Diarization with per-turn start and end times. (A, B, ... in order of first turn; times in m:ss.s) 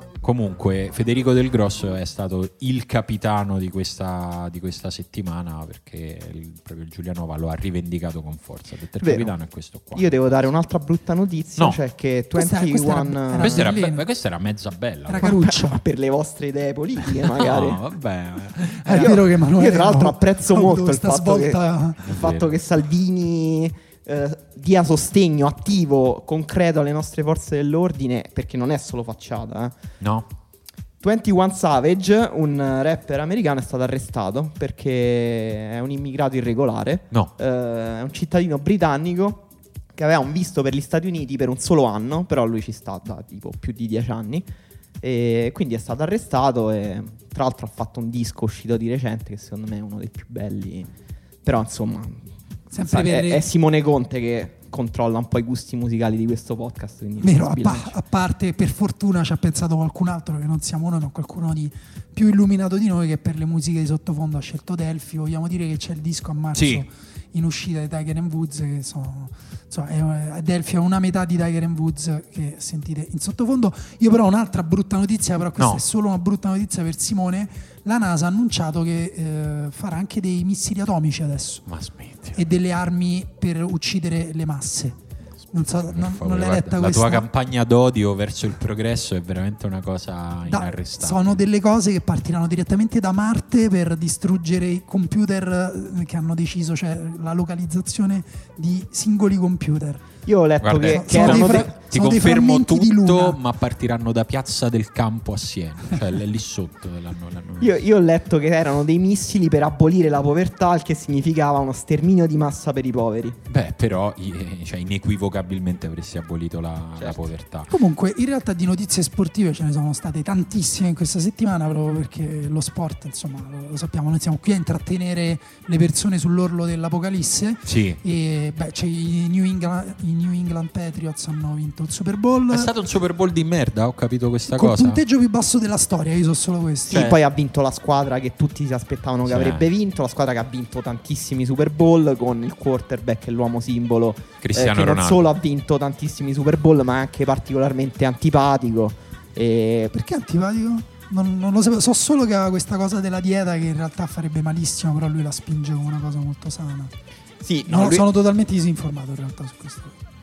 0:00.2-0:10.4 A
0:09.0-0:09.3 B
0:09.9-0:13.7 B
0:12.3-0:14.0 C
0:13.4-0:15.4 A
0:15.1-0:15.8 C
0:15.2-0:17.8 B
0:17.2-0:19.2 A
0:18.8-0:22.1 C
0:19.0-0:29.7 B
0:22.0-0:22.5 A
0:30.0-0:30.3 A
0:31.0-0:39.4 B
0:39.9-0:44.5 B
0:45.0-0:50.9 B
0:51.4-0:57.9 B
0:52.7-0:53.4 C
0:57.2-1:21.6 C
1:06.5-1:06.8 A
1:15.6-1:15.8 A
1:21.7-1:22.4 A
1:22.3-1:25.0 C
1:25.5-1:27.2 C
1:25.6-1:31.4 A
1:30.5-1:40.0 C
1:40.2-1:41.7 B
1:40.6-1:47.7 A
1:40.9-1:43.4 C
1:47.6-1:53.4 B
1:53.5-1:57.7 A
1:57.7-2:12.7 C
2:07.6-2:08.0 A
2:12.5-2:15.0 A
2:14.5-2:17.1 C
2:16.9-2:17.2 A
2:16.9-2:29.9 B
2:19.2-2:19.6 A
2:24.4-2:25.2 A
2:29.9-2:36.9 C
2:37.4-2:38.1 B
2:37.7-2:39.9 C